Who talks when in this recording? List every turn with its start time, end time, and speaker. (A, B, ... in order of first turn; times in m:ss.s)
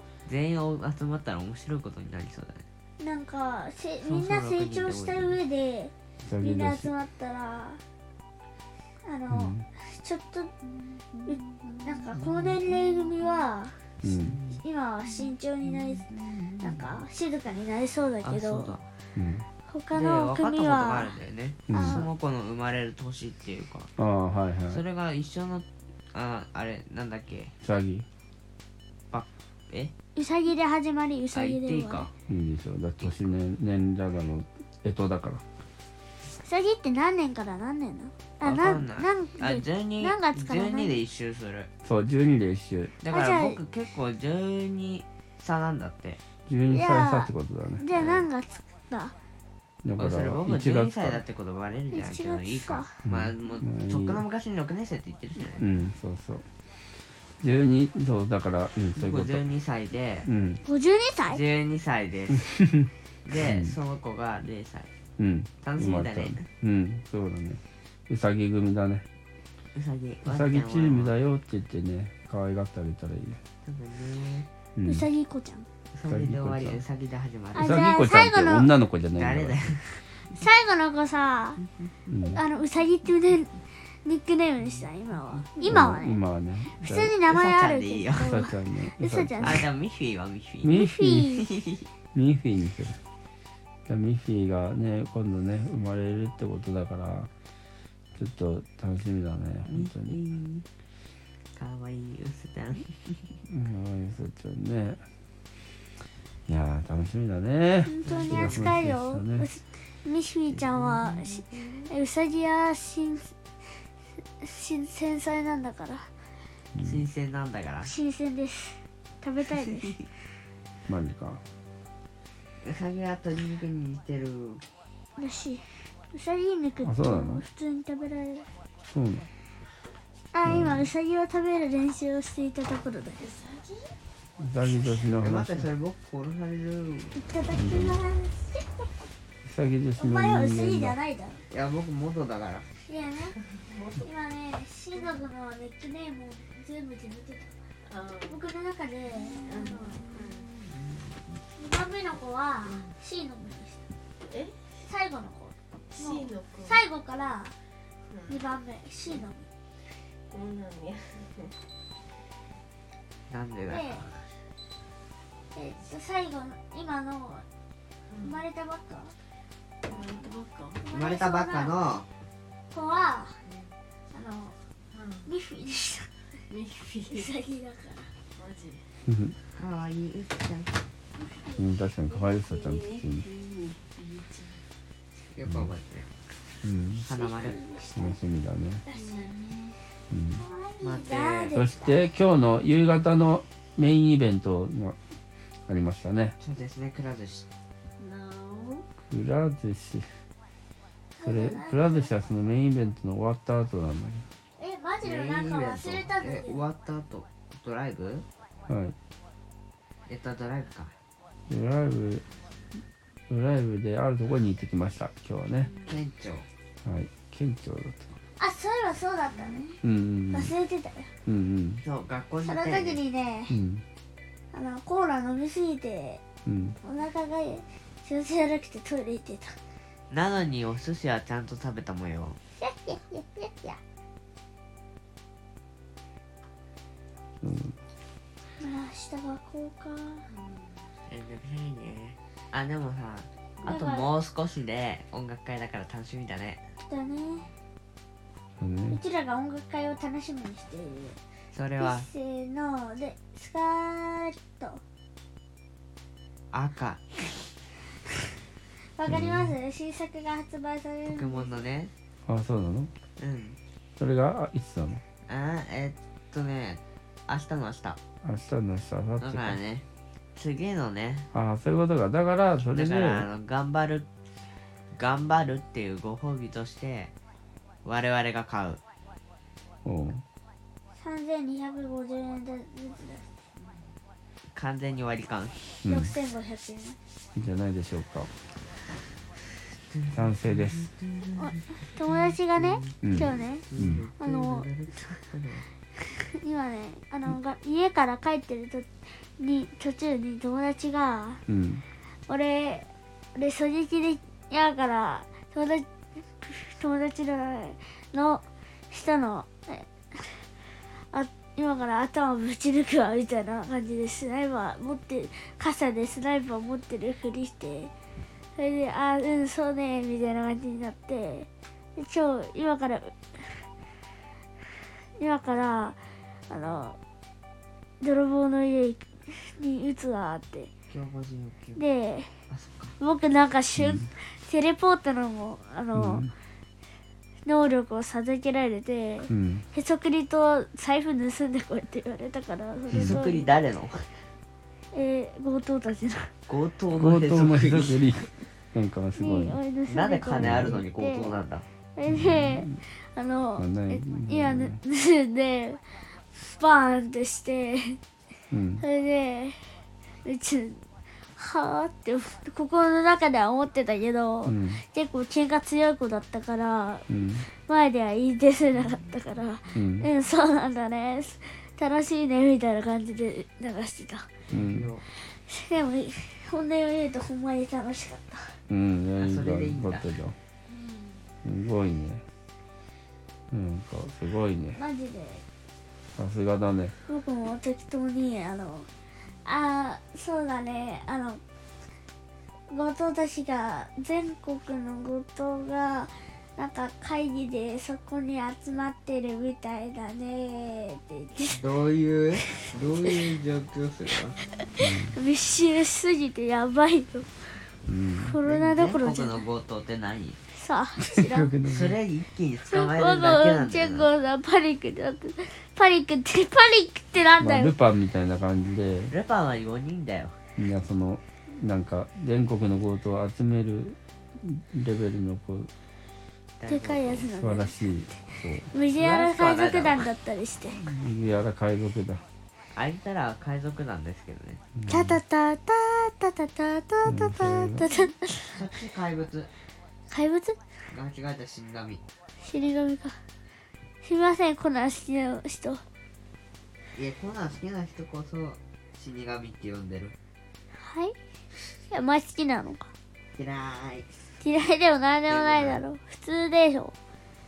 0:00.3-0:02.6 A
0:03.0-0:07.8 B
0:04.0-0:05.4 A
0:06.2-0:06.9 C
0:09.0-0:10.5 B
0:09.3-0:09.6 C
0:11.3-0:13.8 B
0:12.1-0:12.6 A
0:14.0-0:14.4 C
0:14.0-0:14.6 A
0:14.6-0:18.7 B
0:18.2-0:18.9 A
0:19.2-0:19.5 C
0:19.7-0:21.1 B
0:19.9-0:23.9 A
0:21.7-0:22.1 C
0:21.7-0:22.1 B
0:24.0-0:24.8 C
0:24.7-0:27.5 A
0:27.6-0:28.1 C
0:29.1-0:29.9 A
0:30.2-0:32.1 B
0:31.3-0:32.1 A
0:32.3-0:35.4 C
0:33.0-0:33.3 A
0:36.4-0:41.0 B
0:38.4-0:41.7 A
0:41.8-0:42.9 C
0:43.0-0:46.2 A
0:43.1-0:43.6 B
0:46.5-0:47.8 C
0:46.7-0:49.2 B
0:47.9-0:48.3 A
0:49.8-0:51.2 C
0:50.0-0:55.6 A
0:51.9-0:52.9 B
0:53.0-0:54.2 C
0:55.6-0:56.4 C
0:57.4-0:59.4 C
0:59.0-1:00.3 A
1:00.2-1:00.6 C
1:00.7-1:01.4 B
1:01.3-1:02.5 A
1:02.5-1:03.7 C
1:03.2-1:04.9 A
1:05.2-1:09.0 C
1:05.6-1:06.5 A
1:09.8-1:11.2 A
1:10.2-1:13.4 C
1:13.6-1:14.5 A
1:14.8-1:15.1 C
1:14.8-1:15.7 B
1:15.9-1:17.8 A
1:16.1-1:16.8 C
1:17.6-1:18.7 B
1:17.6-1:19.6 C
1:19.1-1:20.0 A
1:20.2-1:21.6 B
1:22.1-1:22.4 C
1:22.2-1:23.5 B
1:24.0-1:26.2 B
1:25.6-1:27.1 C
1:26.7-1:29.6 B
1:27.3-1:28.3 A
1:28.2-1:29.6 C
1:29.4-1:30.8 A
1:30.6-1:31.3 C
1:30.7-1:31.4 B
1:31.4-1:31.8 A
1:32.1-1:33.0 C
1:33.9-1:37.3 C
1:38.2-1:40.2 C
1:39.7-1:40.7 A
1:41.6-1:43.2 A
1:43.5-1:45.0 C
1:46.5-1:49.5 C
1:47.8-1:53.3 B
1:48.0-1:48.8 A
1:50.5-1:51.9 A
1:54.4-1:56.1 B
1:56.8-1:57.0 C
1:56.8-1:57.9 A
1:57.8-2:00.0 B
2:00.9-2:01.4 C
2:02.6-2:04.6 A
2:05.2-2:08.5 B
2:06.8-2:07.4 C
2:08.9-2:09.3 C
2:10.3-2:13.4 B
2:10.4-2:10.9 C
2:13.2-2:14.0 D
2:14.4-2:15.7 C
2:15.2-2:17.2 A
2:17.1-2:18.9 B
2:17.5-2:18.0 C
2:19.4-2:21.0 C
2:20.0-2:21.4 B
2:21.5-2:22.7 A
2:22.8-2:23.4 B
2:23.6-2:24.0 D
2:23.9-2:27.5 B
2:27.9-2:28.4 D
2:28.3-2:30.0 B
2:29.4-2:30.5 D
2:31.6-2:33.8 B
2:34.3-2:34.6 D
2:34.8-2:37.6 B
2:35.9-2:36.8 D
2:38.1-2:38.4 D
2:38.3-2:39.5 B
2:40.3-2:41.5 D
2:43.3-2:44.1 A
2:43.7-2:44.0 B
2:45.5-2:47.4 B
2:48.1-2:48.4 D
2:48.2-2:49.2 B
2:49.8-2:50.8 D
2:50.8-2:51.8 B
2:50.9-2:52.1 A
2:52.7-2:53.4 B
2:53.5-2:53.7 D
2:54.1-2:54.6 B
2:54.9-2:55.3 D
2:55.3-2:56.1 B
2:56.5-2:57.3 D
2:57.1-2:58.1 B
2:58.4-2:58.8 D
2:59.1-2:59.4 C
2:59.6-3:00.8 A
3:01.6-3:03.3 C
3:02.1-3:04.6 D
3:05.3-3:06.1 A
3:06.6-3:07.0 C
3:07.1-3:07.6 A
3:07.1-3:08.2 B
3:08.0-3:08.8 C
3:08.9-3:09.2 B
3:08.9-3:09.8 D
3:10.1-3:10.4 C
3:10.4-3:12.0 B
3:10.8-3:11.7 A
3:11.5-3:15.0 C
3:15.7-3:16.4 C
3:16.4-3:17.5 A
3:18.0-3:18.9 D
3:19.1-3:20.1 C
3:21.2-3:22.1 B
3:21.2-3:24.3 C
3:24.6-3:26.6 B
3:25.0-3:28.3 A
3:28.7-3:29.0 C
3:30.1-3:30.9 A
3:31.5-3:32.2 C
3:33.3-3:35.7 C
3:35.9-3:36.5 A
3:36.8-3:38.2 C
3:38.4-3:39.7 B
3:39.8-3:40.5 C
3:40.3-3:41.1 B
3:41.3-3:41.8 C
3:41.8-3:43.0 A
3:42.4-3:43.6 B
3:43.5-3:43.8 C
3:44.5-3:46.2 B
3:46.5-3:46.8 C
3:46.8-3:49.6 B
3:50.1-3:52.4 A
3:52.6-3:53.8 B
3:57.4-3:57.8 C
3:58.6-4:00.3 B
4:01.1-4:06.6 A
4:03.7-4:04.1 B
4:06.8-4:07.5 B
4:08.6-4:09.0 C
4:08.9-4:11.2 B
4:11.5-4:12.1 A
4:11.8-4:14.8 B
4:16.5-4:17.0 A
4:19.0-4:21.5 B
4:19.1-4:19.6 C
4:21.1-4:21.9 A
4:22.3-4:22.9 C
4:23.2-4:23.6 A
4:24.0-4:25.0 C
4:25.3-4:28.0 A
4:28.2-4:29.6 C
4:29.2-4:29.8 A
4:30.4-4:31.3 A
4:31.3-4:33.3 C
4:32.6-4:34.1 A
4:34.9-4:37.1 A
4:37.8-4:38.8 A
4:39.8-4:40.2 C
4:41.0-4:43.2 B
4:44.5-4:45.7 A
4:45.8-4:46.1 C
4:45.9-4:47.0 B
4:47.4-4:48.3 C
4:49.9-4:55.7 A
4:50.1-4:50.9 C
4:51.4-4:53.7 B
4:53.0-4:54.0 C
4:54.2-4:54.7 B
4:56.1-5:01.4 B
5:01.5-5:01.8 C
5:02.3-5:05.9 B
5:06.4-5:10.4 B
5:11.1-5:17.9 B
5:18.6-5:23.6 B
5:25.2-5:26.0 B
5:26.5-5:27.0 B
5:28.0-5:30.7 B
5:30.9-5:31.8 A
5:31.8-5:32.3 B
5:32.5-5:33.0 A
5:33.0-5:36.2 B
5:33.8-5:34.1 C
5:35.9-5:36.3 C
5:37.4-5:43.5 B
5:39.3-5:39.6 C
5:42.9-5:44.1 A
5:42.9-5:43.2 C
5:44.9-5:46.3 B
5:46.5-5:48.1 A
5:46.9-5:49.6 C
5:49.2-5:51.4 B
5:49.9-5:51.6 A
5:50.4-5:50.8 C
5:52.0-5:58.0 B
5:52.1-5:52.8 C
5:53.6-5:54.8 C
5:58.5-5:58.8 C
5:58.8-6:00.8 B
6:01.4-6:14.3 B
6:04.4-6:04.8 C
6:07.1-6:07.5 C
6:09.7-6:10.1 C
6:14.5-6:15.1 A
6:14.5-6:14.9 C
6:15.1-6:18.6 B
6:18.7-6:20.4 C
6:19.2-6:20.1 A
6:21.4-6:22.2 C
6:23.5-6:24.8 C
6:24.8-6:25.4 B
6:26.2-6:27.0 C
6:27.1-6:28.9 B
6:29.4-6:31.4 B
6:32.7-6:41.6 B
6:41.5-6:44.4 A
6:44.8-6:45.2 C
6:44.8-6:47.4 B
6:47.9-6:48.4 C
6:48.2-6:49.4 B
6:48.4-6:50.4 A
6:50.5-6:51.5 B
6:51.0-6:52.0 C
6:51.7-6:54.1 A
6:52.7-6:57.8 B
6:57.4-6:59.1 C
6:59.1-7:00.4 A
7:00.6-7:05.7 C
7:06.6-7:07.3 A
7:06.7-7:10.8 B
7:07.3-7:08.7 C
7:09.0-7:10.1 A
7:10.7-7:12.2 C
7:12.7-7:14.6 A
7:14.8-7:15.2 C
7:14.9-7:18.5 B
7:17.0-7:17.9 C
7:18.5-7:19.5 A
7:20.1-7:20.6 B
7:20.9-7:22.0 A
7:22.4-7:23.2 B
7:24.0-7:25.8 B
7:27.0-7:30.2 A
7:30.7-7:31.2 B
7:31.9-7:32.9 B
7:33.4-7:34.1 A
7:34.4-7:36.9 B
7:35.3-7:35.9 A